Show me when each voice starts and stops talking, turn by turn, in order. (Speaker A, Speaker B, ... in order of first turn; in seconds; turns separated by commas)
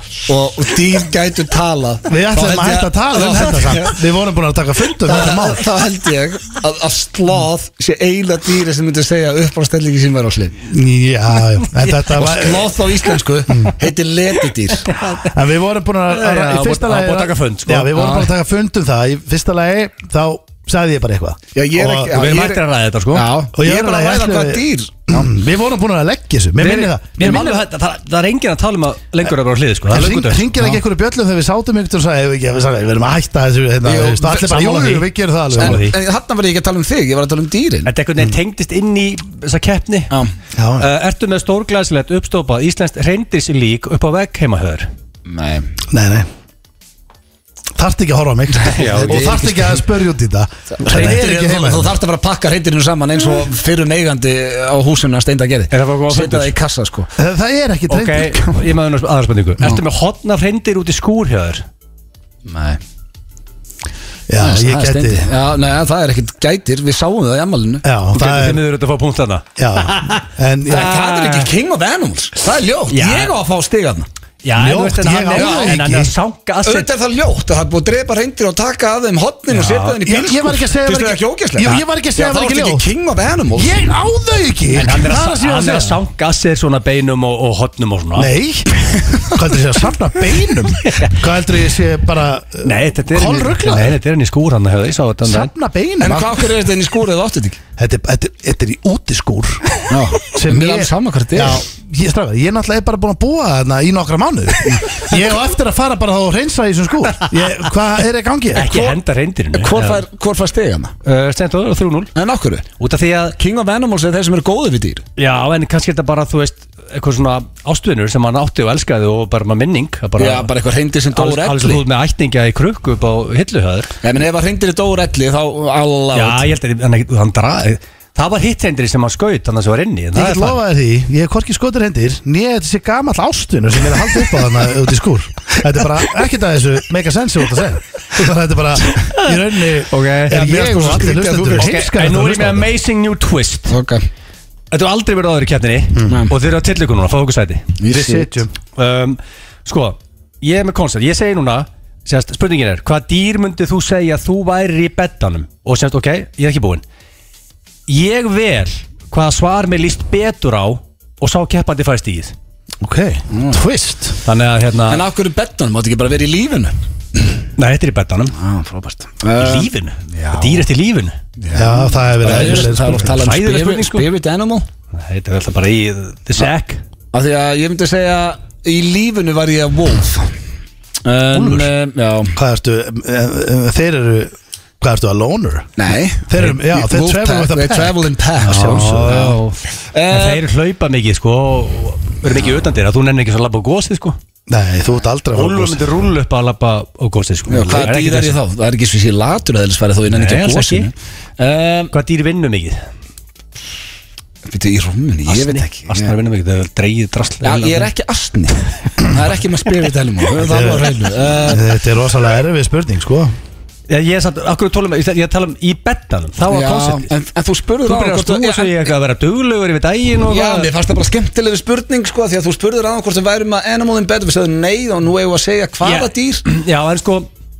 Speaker A: 0.3-4.0, Speaker B: 2.1-5.7, Speaker A: 5.0-10.6, Speaker B: 10.7-12.8, Speaker A: 12.0-14.9, Speaker B: 13.5-13.7, Speaker C: 14.9-15.3, Speaker B: 15.2-22.1, Speaker C: 16.1-17.9, Speaker A: 17.9-18.3, Speaker A: 21.5-25.3, Speaker C: 22.1-23.3, Speaker B: 23.5-27.5, Speaker C: 26.6-30.5, Speaker A: 27.2-27.6, Speaker B: 29.8-35.8, Speaker A: 33.8-37.9, Speaker C: 35.6-35.9, Speaker C: 37.8-40.1, Speaker B: 40.5-40.9, Speaker C: 40.8-44.9, Speaker A: 45.2-45.7, Speaker B: 45.9-46.3, Speaker B: 47.8-52.0, Speaker C: 48.7-49.4, Speaker A: 48.8-49.8, Speaker A: 50.8-57.1, Speaker C: 50.8-51.2, Speaker C: 55.7-56.5, Speaker B: 57.2-58.5, Speaker C: 57.9-61.6, Speaker A: 62.5-62.8, Speaker B: 64.3-65.3, Speaker A: 64.4-67.8, Speaker B: 67.8-68.6, Speaker C: 68.1-71.5, Speaker B: 69.6-70.9, Speaker A: 70.7-74.1, Speaker C: 72.9-73.3, Speaker C: 74.4-76.9, Speaker B: 74.5-76.1, Speaker A: 75.3-75.8, Speaker A: 76.6-83.8, Speaker C: 79.5-80.0, Speaker B: 80.0-82.8, Speaker B: 83.5-86.0, Speaker C: 84.7-88.3, Speaker B: 88.2-94.0, Speaker C: 90.8-91.2, Speaker C: 92.6-95.5, Speaker B: 95.2-96.5, Speaker A: 96.0-97.6, Speaker B: 97.8-108.9, Speaker A: 99.9-101.6, Speaker C: 108.5-110.0, Speaker A: 109.5-110.9, Speaker C: 111.0-112.1, Speaker A: 112.1-112.7, Speaker C: 112.8-113.3, Speaker A: 113.4-115.0, Speaker C: 115.2-120.5, Speaker A: 120.2-121.8, Speaker C: 121.1-123.9, Speaker A: 124.0-126.5, Speaker C: 126.1-130.6, Speaker B: 130.1-142.7, Speaker C: 139.9-143.8, Speaker A: 140.3-141.8, Speaker A: 143.7-144.1, Speaker C: 144.7-147.7, Speaker B: 145.9-146.2, Speaker A: 147.8-148.3, Speaker B: 147.9-148.5, Speaker C: 148.8-156.8, Speaker C: 157.9-162.3, Speaker B: 162.8-164.2, Speaker A: 163.3-163.6, Speaker C: 164.2-165.0, Speaker A: 164.9-167.2, Speaker C: 167.6-168.3, Speaker A: 168.3-170.7, Speaker C: 169.3-171.2, Speaker A: 171.4-174.7, Speaker B: 171.5-173.2, Speaker C: 172.2-174.1, Speaker C: 174.9-176.8, Speaker A: 177.1-180.3, Speaker A: 181.0-182.4, Speaker C: 181.3-181.7, Speaker B: 182.3-189.4, Speaker A: 185.8-190.4, Speaker C: 188.6-189.6, Speaker C: 190.1-194.2, Speaker B: 194.5-195.9, Speaker C: 195.3-198.4, Speaker A: 197.5-201.9, Speaker C: 200.1-200.9, Speaker C: 201.9-202.8, Speaker A: 204.5-206.1, Speaker C: 205.3-207.9, Speaker A: 207.4-211.7, Speaker B: 210.4-210.9, Speaker B: 211.4-213.3, Speaker C: 213.9-217.1, Speaker A: 216.5-218.9, Speaker C: 217.8-220.7, Speaker A: 220.2-226.4, Speaker C: 225.8-227.3